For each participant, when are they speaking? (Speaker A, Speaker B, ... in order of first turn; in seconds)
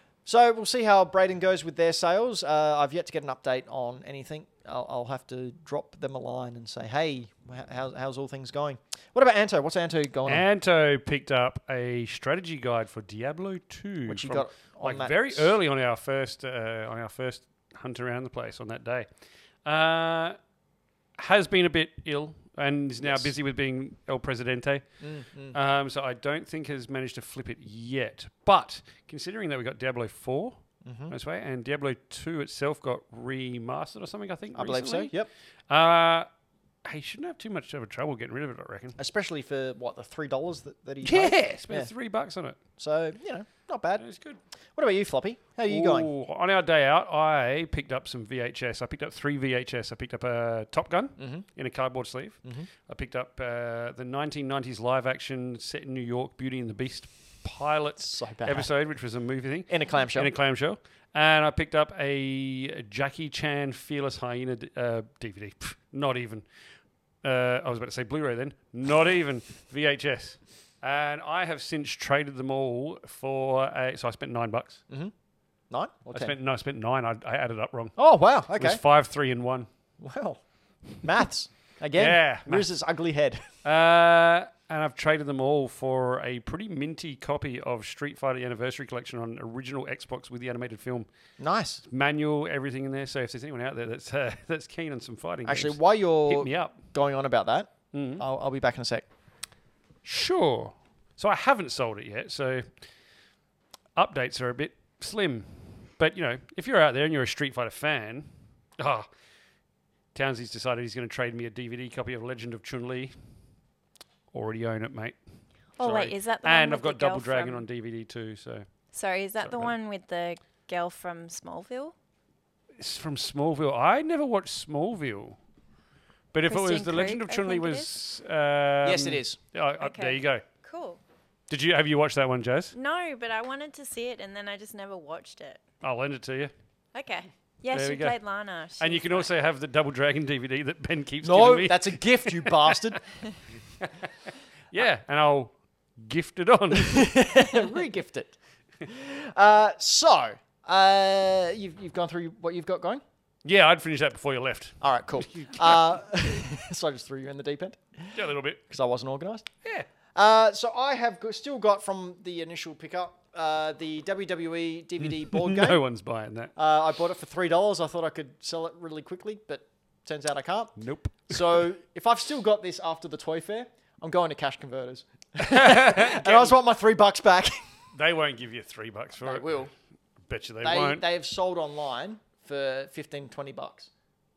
Speaker A: 0.2-10.4, 14.1-15.5, 23.0-23.3, 25.0-25.6, 30.8-31.1, 34.5-35.3, 39.0-41.9, 42.8-44.0, 44.8-46.1, 51.2-51.4, 58.0-58.7, 59.7-60.3, 75.7-76.3, 78.0-78.8, 80.0-80.4, 81.0-83.5, 91.4-91.8, 95.5-99.0, 128.8-129.4, 141.2-143.0, 146.7-153.0, 154.8-158.1, 158.7-159.5, 160.1-165.8, 166.6-170.8, 171.3-177.6, 179.2-179.7, 180.6-183.9
Speaker B: 10.2-19.1, 19.6-20.4, 21.2-24.8, 25.5-30.6, 31.1-35.1, 35.7-36.3, 36.8-39.0, 41.0-42.6, 44.0-44.4, 45.7-66.5, 67.2-74.8, 76.1-77.9, 78.6-79.7, 82.0-82.7, 83.6-91.1, 91.9-96.8, 97.9-98.2, 100.0-102.6, 104.0-109.1, 110.1-113.1, 114.3-115.2, 115.8-118.7, 119.4-119.7, 122.8-125.4, 126.3-130.4, 131.5-132.7, 135.8-136.5, 137.7-138.2, 138.8-143.0, 143.8-147.1, 153.4-156.0, 158.1-158.6, 165.0-166.5, 170.8-171.6, 175.4-176.6, 177.9-179.5, 180.3-181.0
Speaker C: 115.8-117.6, 118.9-121.9, 126.5-127.9, 129.8-131.0, 132.7-135.6, 136.9-139.3